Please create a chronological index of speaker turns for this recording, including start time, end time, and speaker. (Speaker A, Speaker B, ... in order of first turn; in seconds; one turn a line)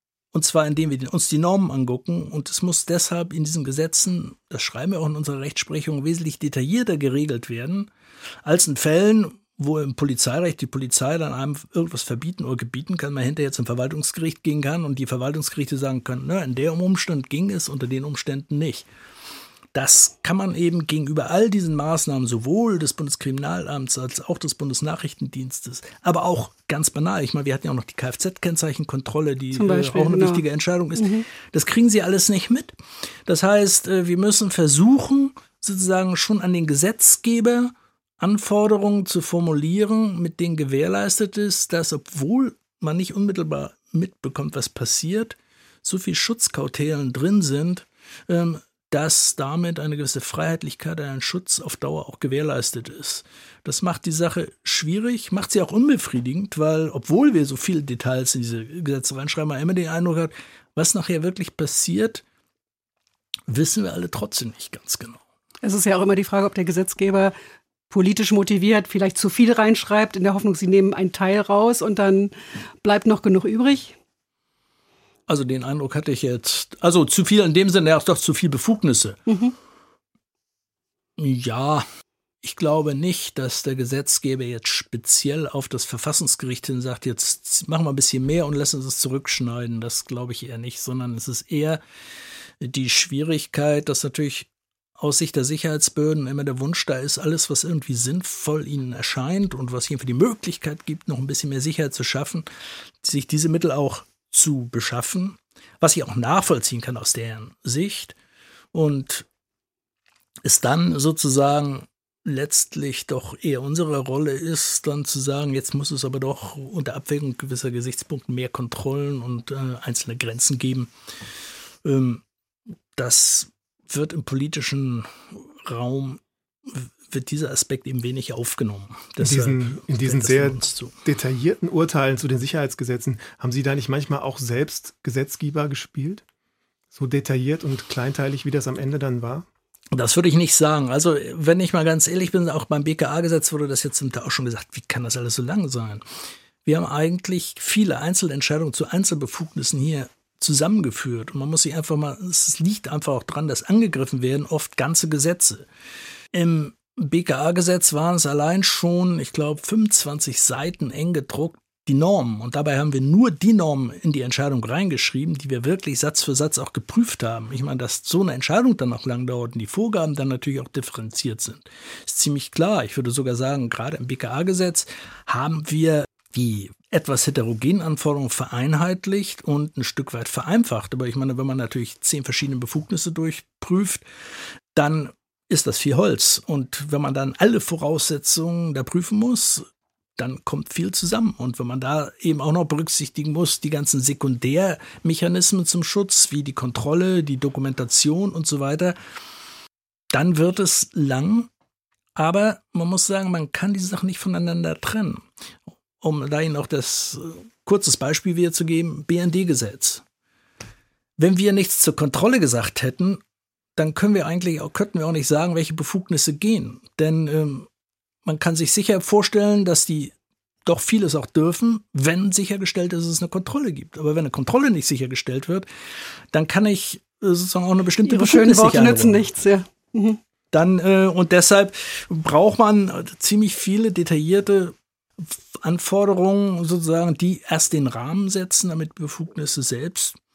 Speaker A: 0.3-7.9
Speaker A: 8.4-18.9
Speaker A: 19.7-32.7
Speaker B: 29.5-30.4
Speaker B: 30.9-31.2
Speaker A: 33.2-62.2
Speaker A: 63.5-65.2
Speaker B: 65.6-67.3
Speaker B: 67.9-74.0
Speaker A: 75.3-79.2
Speaker B: 79.3-79.5
Speaker A: 81.2-81.8
Speaker A: 82.4-91.8
Speaker A: 92.6-102.5
Speaker A: 103.0-108.2
Speaker A: 108.7-109.3
Speaker A: 110.4-120.9
Speaker A: 121.8-122.2
Speaker A: 123.0-130.9
Speaker C: 129.2-136.2
Speaker C: 136.9-139.5
Speaker A: 139.9-146.0
Speaker A: 146.6-155.7
Speaker A: 156.3-184.0
Speaker A: 184.7-189.6
Speaker A: 190.2-198.9
Speaker A: 200.1-201.5
Speaker A: 202.2-205.2
Speaker A: 206.0-210.0
Speaker A: 211.2-213.2
Speaker A: 213.8-217.7
Speaker A: 218.2-220.1
Speaker A: 220.7-225.7
Speaker A: 226.3-229.2
Speaker B: 228.1-230.2
Speaker A: 230.5-240.2